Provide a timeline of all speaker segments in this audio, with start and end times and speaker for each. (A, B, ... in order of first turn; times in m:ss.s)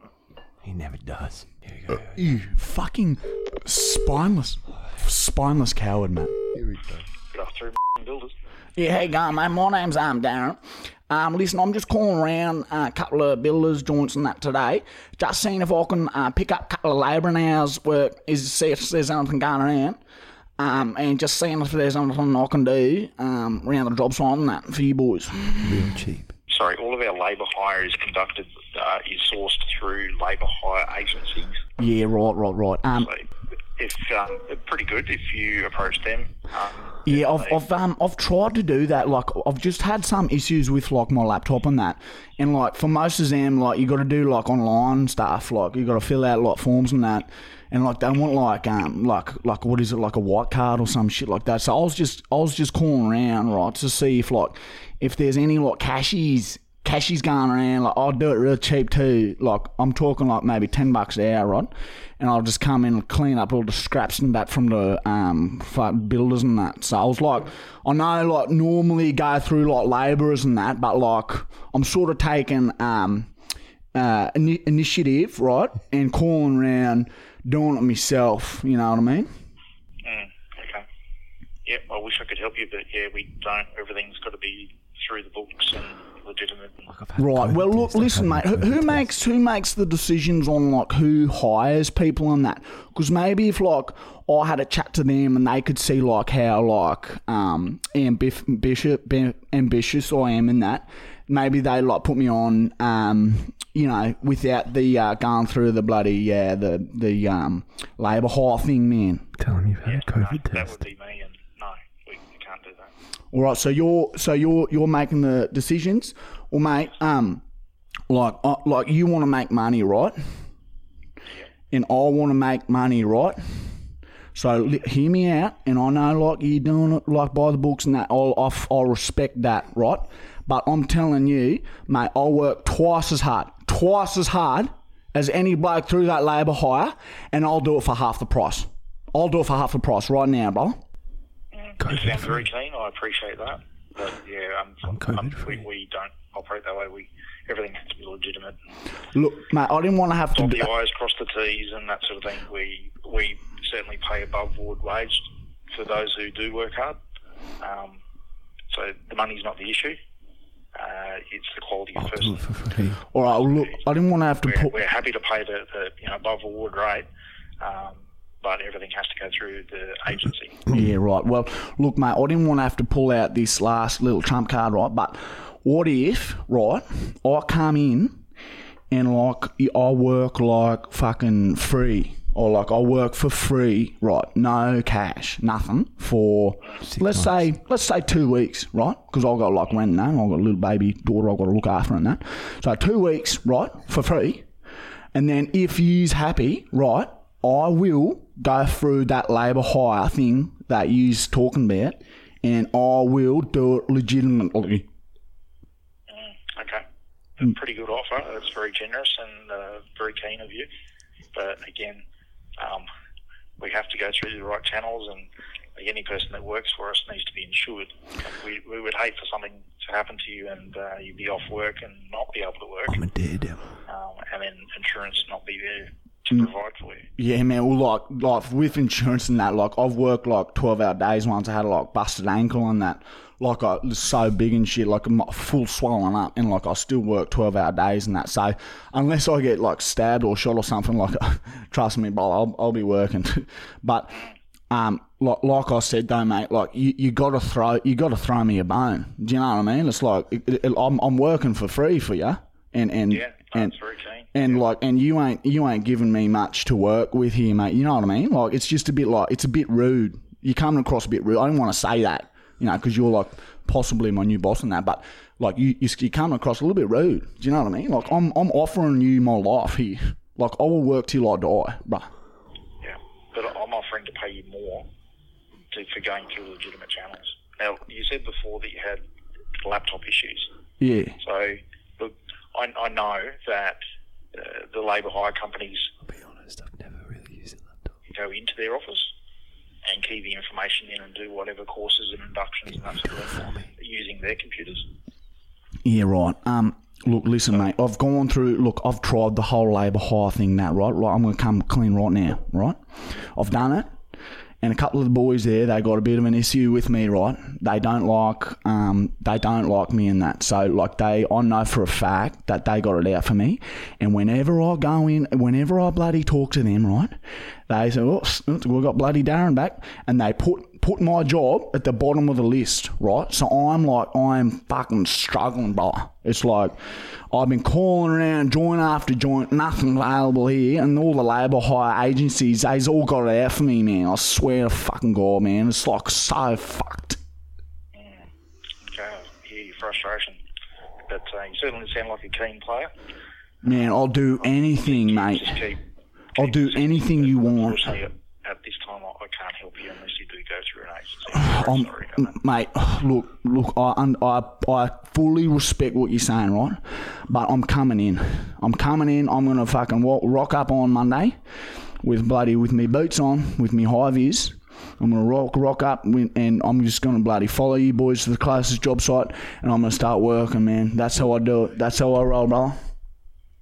0:00.6-0:02.3 A
0:02.1-0:06.4 B
0:07.3-0:08.3 C
0:08.8-0:20.0 B
0:20.6-0:25.9 B
0:25.6-0:26.3 A
0:26.5-0:31.6 C
0:31.8-0:33.1 B
0:33.0-0:37.6 C
0:37.0-1:13.3 B
1:13.9-1:19.3 B
1:20.0-1:20.8 C
1:21.6-1:26.9 C
1:26.9-1:29.0 A
1:27.2-1:49.3 B
1:49.4-1:50.8 A
1:49.8-1:52.9 C
1:53.3-1:57.4 B
1:58.1-2:00.2 B
2:01.7-2:03.4 B
2:04.3-2:20.8 B
2:21.5-2:28.6 C
2:21.8-2:22.4 A
2:24.9-2:25.6 A
2:29.1-2:30.7 B
2:30.3-2:37.0 C
2:37.6-2:38.0 C
2:38.7-2:40.0 C
2:40.8-2:42.5 C
2:42.0-2:43.0 A
2:43.1-2:44.8 B
2:43.4-2:43.8 C
2:44.4-2:47.1 C
2:47.6-2:50.6 C
2:50.7-2:58.2 B
2:58.9-3:14.4 B
3:06.9-3:07.3 A
3:15.1-3:24.9 B
3:26.1-3:26.8 C
3:27.4-3:30.7 C
3:31.3-3:32.0 C
3:32.6-3:32.9 C
3:33.6-3:43.0 C
3:42.9-3:43.6 A
3:43.9-3:47.1 C
3:47.2-4:13.7 B
4:13.1-4:14.6 C
4:14.3-4:32.1 B
4:32.8-4:34.9 C
4:35.7-4:39.0 C
4:39.6-4:40.5 C
4:40.8-4:41.2 B
4:41.2-4:43.8 C
4:44.3-4:45.9 C
4:46.1-4:47.9 A
4:48.1-4:49.1 C
4:49.8-4:54.9 C
4:53.3-4:53.7 A
4:55.8-5:03.9 B
5:04.6-5:17.2 B
5:17.7-5:37.2 B
5:37.9-5:38.2 C
5:38.8-5:40.4 C
5:41.1-5:42.9 C
5:43.6-5:45.6 B
5:44.8-5:45.8 C
5:46.4-5:48.0 B
5:46.4-5:52.3 C
5:51.3-6:01.4 B
6:02.0-6:12.8 B